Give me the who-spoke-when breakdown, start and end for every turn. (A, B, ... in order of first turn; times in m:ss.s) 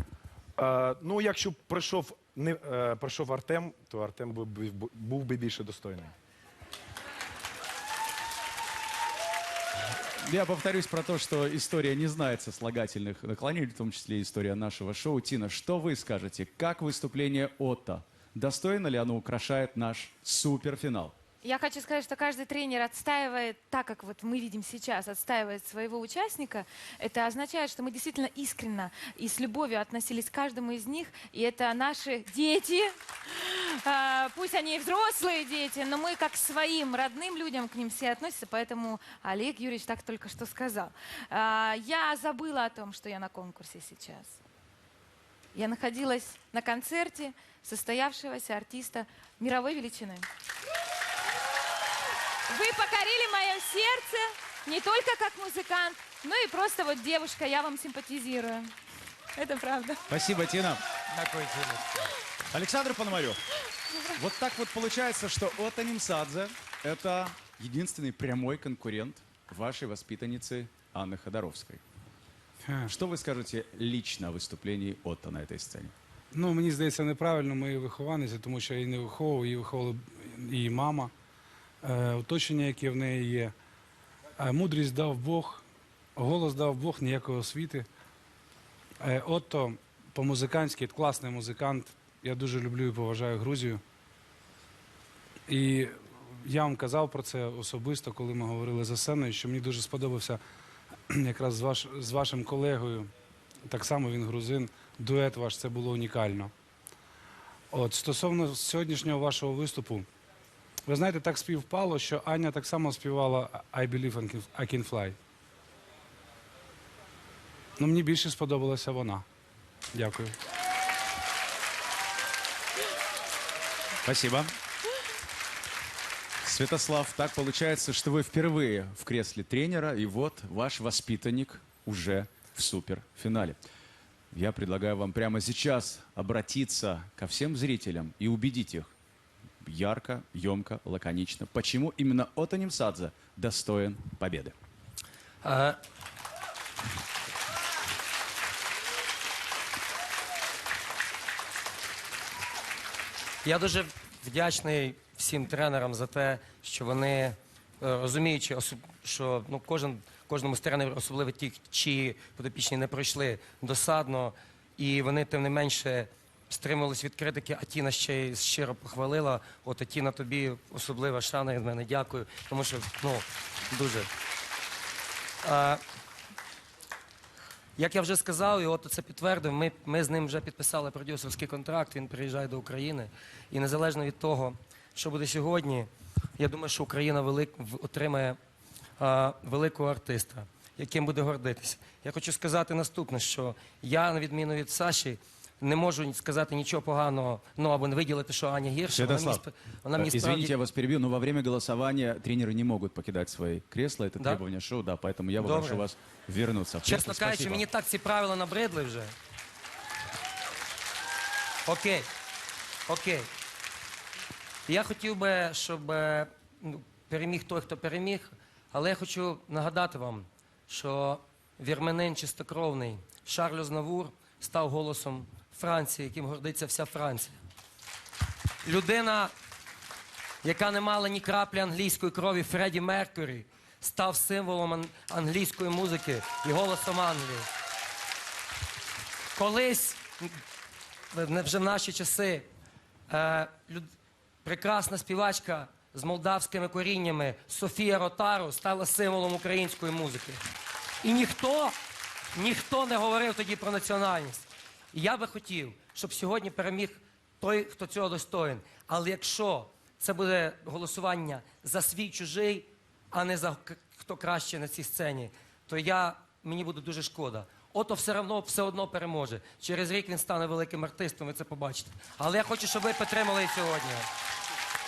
0:00.6-0:06.1 A
0:10.2-0:21.1 B
0:21.4-0:44.4 C
0:45.5-0:50.3 C
0:52.5-0:58.7 C
0:59.4-1:00.0 C
1:00.1-1:00.8 B
1:01.1-1:02.0 D
1:02.5-1:03.4 B
1:04.1-1:11.8 B
1:12.7-1:12.9 E
1:12.9-1:15.9 B
1:16.3-1:21.1 E
1:21.8-1:23.5 E
1:24.4-1:25.6 E
1:26.2-1:27.9 E
1:29.0-1:33.8 E
1:35.5-1:40.4 E
1:41.1-1:43.1 E
1:43.7-1:46.5 E
1:47.7-1:50.1 E
1:50.9-1:55.2 E
1:57.8-1:59.2 E
1:59.9-2:00.4 E
2:04.0-2:04.5 B
2:06.4-2:13.6 B
2:14.3-2:18.9 B
2:19.6-2:24.6 B
2:25.4-2:25.8 D
2:33.4-2:54.1 D
2:55.4-2:55.8 D
2:57.8-3:08.4 D
3:09.0-3:20.6 D
3:18.9-3:19.4 B
3:20.0-3:27.6 B
3:25.4-3:25.9 D
3:26.8-3:29.2 D
3:31.7-3:32.1 D
3:32.9-3:33.3 D
3:34.7-3:47.4 D
3:48.6-3:49.3 D
3:50.4-3:57.5 D
3:59.4-4:00.4 D
4:01.1-4:02.5 D
4:03.1-4:03.9 D
4:04.4-4:10.4 D
4:11.0-4:11.8 D
4:12.3-4:34.1 D